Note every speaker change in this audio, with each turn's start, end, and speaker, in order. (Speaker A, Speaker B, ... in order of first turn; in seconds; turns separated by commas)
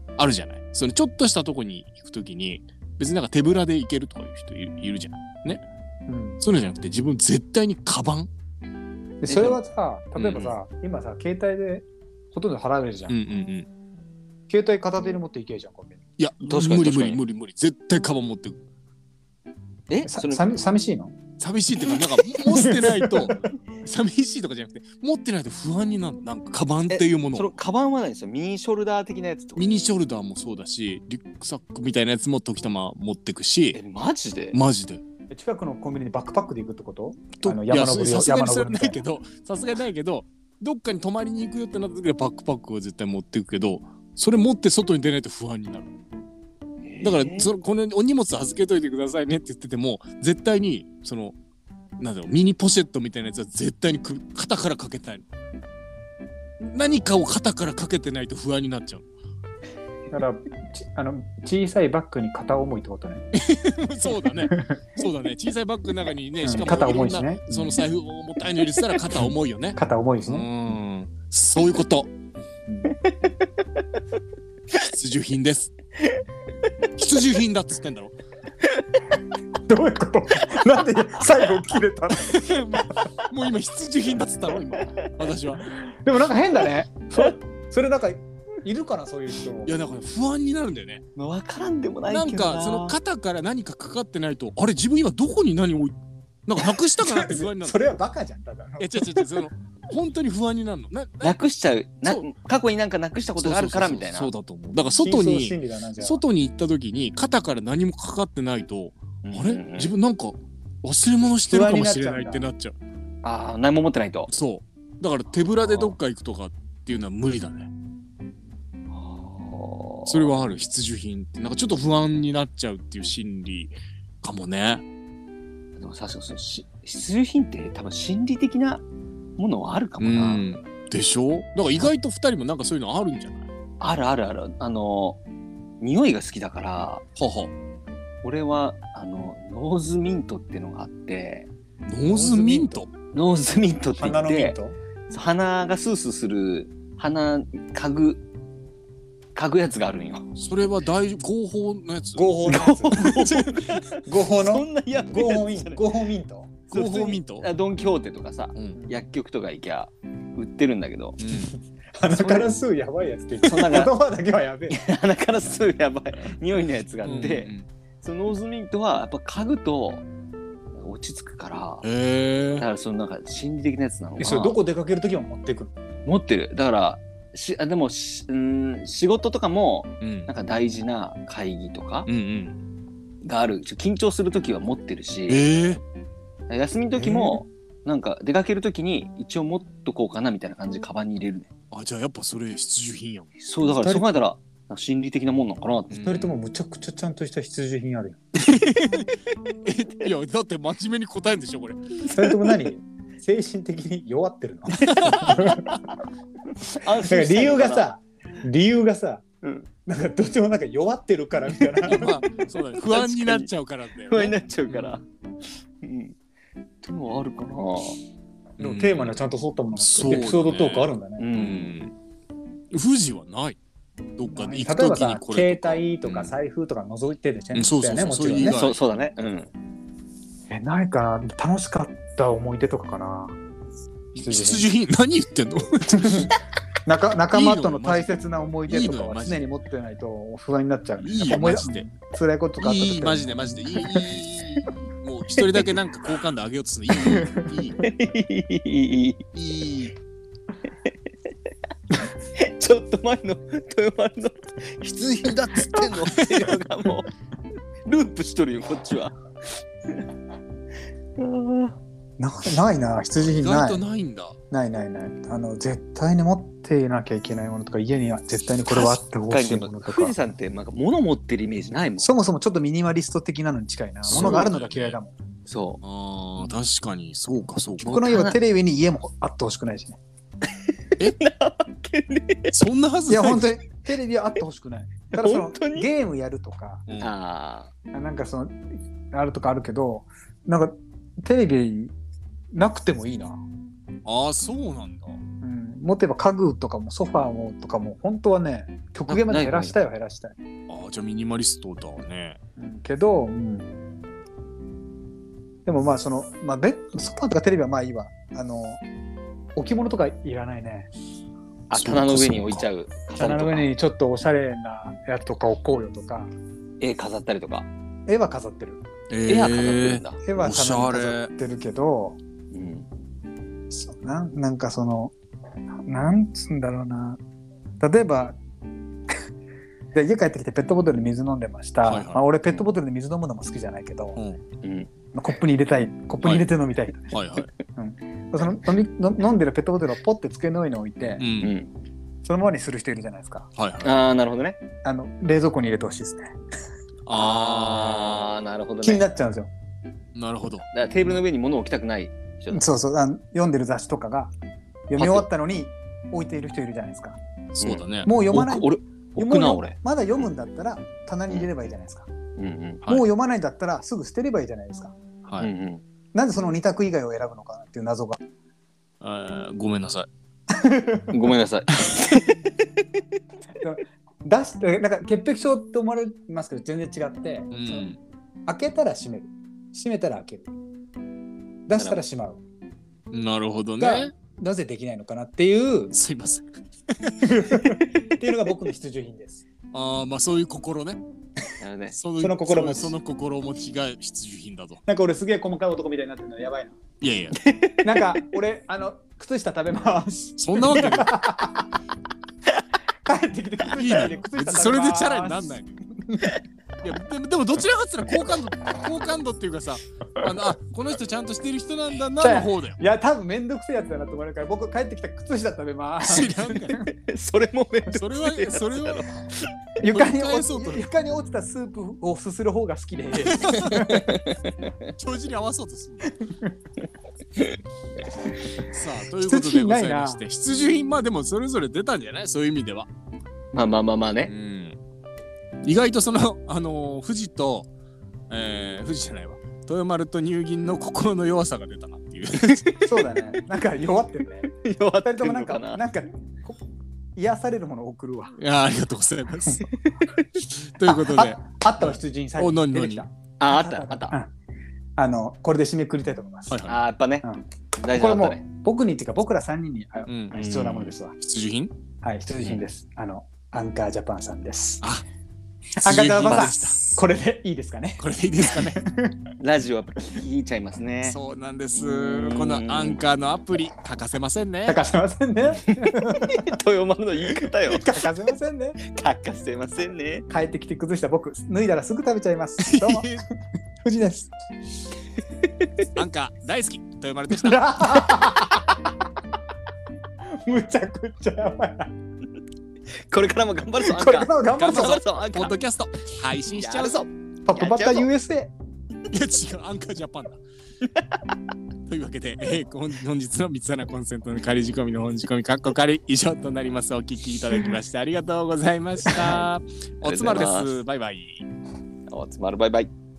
Speaker A: 0.2-5.6, Speaker B: 6.1-6.4, Speaker A: 6.4-8.3, Speaker B: 9.2-13.2, Speaker C: 9.3-9.6, Speaker A: 10.2-10.6, Speaker A: 13.1-13.7, Speaker B: 14.5-16.0, Speaker A: 16.2-18.6, Speaker C: 16.4-17.2, Speaker C: 19.9-20.5, Speaker B: 20.1-21.1, Speaker A: 21.4-27.6, Speaker B: 22.4-23.5, Speaker C: 26.9-29.6, Speaker A: 29.6-33.8, Speaker C: 33.7-34.6, Speaker A: 34.5-35.0, Speaker B: 35.3-39.0, Speaker A: 37.4-45.9, Speaker C: 46.8-47.5, Speaker A: 47.0-51.4, Speaker A: 52.0-55.2, Speaker A: 56.6-59.0, Speaker B: 60.1-63.2, Speaker A: 63.3-72.1, Speaker B: 64.5-64.8, Speaker B: 66.4-67.8, Speaker B: 69.8-70.5, Speaker B: 72.7-72.9, Speaker A: 74.7-75.8, Speaker A: 77.0-78.2, Speaker B: 79.7-82.4, Speaker A: 82.2-85.7, Speaker B: 85.7-89.8, Speaker A: 89.7-91.0, Speaker C: 91.2-93.0, Speaker A: 92.1-96.0, Speaker A: 96.5-97.9, Speaker B: 97.0-99.3, Speaker A: 98.8-101.4, Speaker C: 101.2-104.3, Speaker A: 103.4-112.8, Speaker B: 104.8-106.2, Speaker C: 109.2-109.9, Speaker B: 111.5-112.5, Speaker C: 113.2-114.3, Speaker A: 114.3-117.7, Speaker C: 115.6-116.0, Speaker C: 118.9-120.5, Speaker A: 120.1-124.8, Speaker C: 125.8-128.8, Speaker C: 129.4-130.5, Speaker A: 130.0-133.5, Speaker C: 133.8-135.2, Speaker C: 135.8-137.1, Speaker A: 137.2-137.5, Speaker C: 138.2-141.5, Speaker A: 141.9-142.9, Speaker B: 142.0-142.9, Speaker C: 143.1-144.6, Speaker B: 144.0-144.8, Speaker C: 145.1-148.2, Speaker C: 149.3-150.3, Speaker A: 150.4-153.2, Speaker B: 152.1-157.1, Speaker C: 152.5-155.8, Speaker A: 156.7-157.5, Speaker C: 157.3-161.2, Speaker A: 158.6-158.8, Speaker B: 158.8-159.0, Speaker A: 161.2-161.6, Speaker B: 161.5-164.8, Speaker C: 162.1-162.5, Speaker C: 163.4-163.9, Speaker C: 164.7-170.0, Speaker A: 167.0-167.7, Speaker C: 170.8-171.8, Speaker A: 171.8-172.6, Speaker C: 172.6-174.6, Speaker B: 174.2-175.7, Speaker C: 176.1-182.1, Speaker A: 180.0-180.3, Speaker A: 182.1-182.6, Speaker C: 183.2-185.4, Speaker A: 185.3-185.8, Speaker C: 186.5-191.5, Speaker B: 187.0-187.4, Speaker A: 191.7-193.3, Speaker C: 193.4-196.0, Speaker B: 193.7-194.1, Speaker A: 195.9-196.3, Speaker B: 196.0-198.2, Speaker A: 198.4-202.0, Speaker B: 202.1-205.8, Speaker A: 204.7-205.5, Speaker C: 204.9-205.8, Speaker C: 206.7-207.9, Speaker B: 207.0-209.2, Speaker C: 209.4-209.7, Speaker B: 209.9-212.2, Speaker A: 211.7-215.0, Speaker C: 212.8-213.5, Speaker C: 214.1-215.0, Speaker C: 215.8-216.2, Speaker C: 216.8-218.0, Speaker B: 218.6-221.3, Speaker A: 218.6-219.2, Speaker A: 219.8-221.9, Speaker C: 221.2-221.8, Speaker A: 222.7-223.6, Speaker A: 224.2-226.3, Speaker B: 224.2-228.6, Speaker A: 227.5-228.8, Speaker C: 228.4-229.5, Speaker B: 230.5-233.4, Speaker B: 234.2-234.7, Speaker A: 234.2-236.3, Speaker B: 235.9-236.3, Speaker B: 236.9-244.1, Speaker A: 237.3-239.4, Speaker A: 241.0-241.9, Speaker A: 242.6-247.8, Speaker B: 246.9-247.4, Speaker C: 247.8-249.2, Speaker A: 249.3-249.9, Speaker C: 252.4-257.1, Speaker A: 255.8-256.6, Speaker C: 257.9-259.1, Speaker C: 261.2-261.8, Speaker B: 262.2-263.8, Speaker A: 263.2-264.4, Speaker B: 264.5-270.1, Speaker C: 268.7-272.1, Speaker B: 272.0-275.1, Speaker A: 274.1-275.0, Speaker C: 274.1-274.5, Speaker C: 275.5-275.8, Speaker A: 275.8-278.0, Speaker B: 277.8-280.0, Speaker C: 277.9-278.4, Speaker C: 281.2-282.5, Speaker A: 282.5-283.5, Speaker B: 283.1-286.9, Speaker C: 285.1-285.9, Speaker A: 286.9-287.1, Speaker C: 287.0-287.7, Speaker B: 287.9-291.9, Speaker B: 292.5-293.4, Speaker A: 294.1-295.2, Speaker B: 295.4-300.4, Speaker C: 299.1-299.8, Speaker A: 300.7-302.4, Speaker B: 302.6-303.8, Speaker B: 305.7-308.8, Speaker B: 309.6-310.9, Speaker C: 311.7-313.7, Speaker A: 311.7-312.7, Speaker B: 313.2-316.3, Speaker C: 316.8-317.7, Speaker B: 318.1-318.8, Speaker A: 319.1-321.3, Speaker C: 319.3-320.2, Speaker B: 320.2-322.2, Speaker C: 322.5-322.9, Speaker B: 323.7-325.1, Speaker B: 325.9-327.2, Speaker B: 327.8-328.4, Speaker B: 329.9-334.2, Speaker A: 331.8-332.2, Speaker C: 334.6-334.9, Speaker B: 335.1-337.1, Speaker A: 337.1-337.5, Speaker B: 337.8-341.2, Speaker A: 341.2-341.5, Speaker C: 341.4-341.7, Speaker B: 342.2-343.5, Speaker A: 343.6-344.0, Speaker C: 343.8-344.6, Speaker B: 344.8-346.3, Speaker A: 347.1-348.3, Speaker C: 347.1-349.1, Speaker B: 348.8-349.5, Speaker A: 350.1-350.6, Speaker C: 350.7-352.7, Speaker B: 352.5-354.3, Speaker B: 354.9-357.2, Speaker C: 355.0-355.3, Speaker A: 357.6-358.1, Speaker C: 357.6-359.8, Speaker B: 358.1-362.1, Speaker C: 362.4-362.8, Speaker B: 362.9-364.9, Speaker C: 365.4-365.8, Speaker B: 366.1-368.2, Speaker A: 369.0-370.1, Speaker B: 370.6-371.3, Speaker C: 371.1-372.5, Speaker B: 373.6-377.9, Speaker A: 377.5-378.0, Speaker B: 378.5-380.5, Speaker B: 381.7-382.4, Speaker C: 381.8-382.0, Speaker A: 383.1-384.1, Speaker B: 383.8-386.0, Speaker A: 385.9-386.5, Speaker A: 387.0-387.6, Speaker B: 387.2-389.4, Speaker A: 389.7-391.0, Speaker C: 391.6-392.0, Speaker A: 391.9-394.8, Speaker B: 392.2-392.9, Speaker B: 394.9-396.8, Speaker A: 397.0-397.4, Speaker C: 397.4-398.1, Speaker B: 397.8-401.7, Speaker A: 400.4-401.2, Speaker B: 403.1-406.4, Speaker A: 403.7-405.8, Speaker A: 406.8-412.8, Speaker B: 412.2-416.9, Speaker A: 416.0-416.8, Speaker C: 416.9-419.1, Speaker A: 417.9-419.1, Speaker A: 419.8-420.9, Speaker B: 419.8-424.3, Speaker A: 423.1-424.1, Speaker C: 423.9-424.3, Speaker A: 424.9-426.1, Speaker B: 426.2-426.5, Speaker A: 428.6-432.9, Speaker B: 429.2-430.2, Speaker C: 433.5-434.3, Speaker A: 434.3-434.8, Speaker A: 435.6-437.7, Speaker A: 438.3-442.7, Speaker B: 442.9-446.6, Speaker C: 444.6-445.8, Speaker B: 447.2-448.4, Speaker A: 448.4-449.6, Speaker A: 450.5-453.0, Speaker B: 450.8-454.3, Speaker C: 453.4-454.2, Speaker B: 455.0-456.7, Speaker A: 456.5-456.8, Speaker C: 456.7-457.2, Speaker B: 457.2-461.2, Speaker C: 457.8-458.4, Speaker A: 460.1-460.4, Speaker C: 460.3-460.9, Speaker A: 461.2-461.7, Speaker B: 462.0-464.8, Speaker C: 462.4-462.6, Speaker A: 465.8-466.9, Speaker B: 465.8-469.2, Speaker C: 466.2-466.9, Speaker A: 468.0-468.8, Speaker C: 469.4-471.2, Speaker A: 471.0-474.8, Speaker C: 471.8-473.0, Speaker B: 474.7-476.5, Speaker C: 476.3-477.9, Speaker B: 477.7-478.8, Speaker C: 478.9-480.3, Speaker B: 479.8-483.2, Speaker A: 482.6-483.2, Speaker B: 483.8-484.3, Speaker A: 485.9-488.0, Speaker B: 487.3-488.6, Speaker B: 490.4-491.9, Speaker C: 493.1-495.6, Speaker B: 493.8-495.0, Speaker A: 494.6-497.1, Speaker C: 496.5-498.1, Speaker B: 497.5-498.5, Speaker A: 499.1-500.4, Speaker A: 501.9-511.5, Speaker C: 510.0-510.8, Speaker C: 512.1-512.9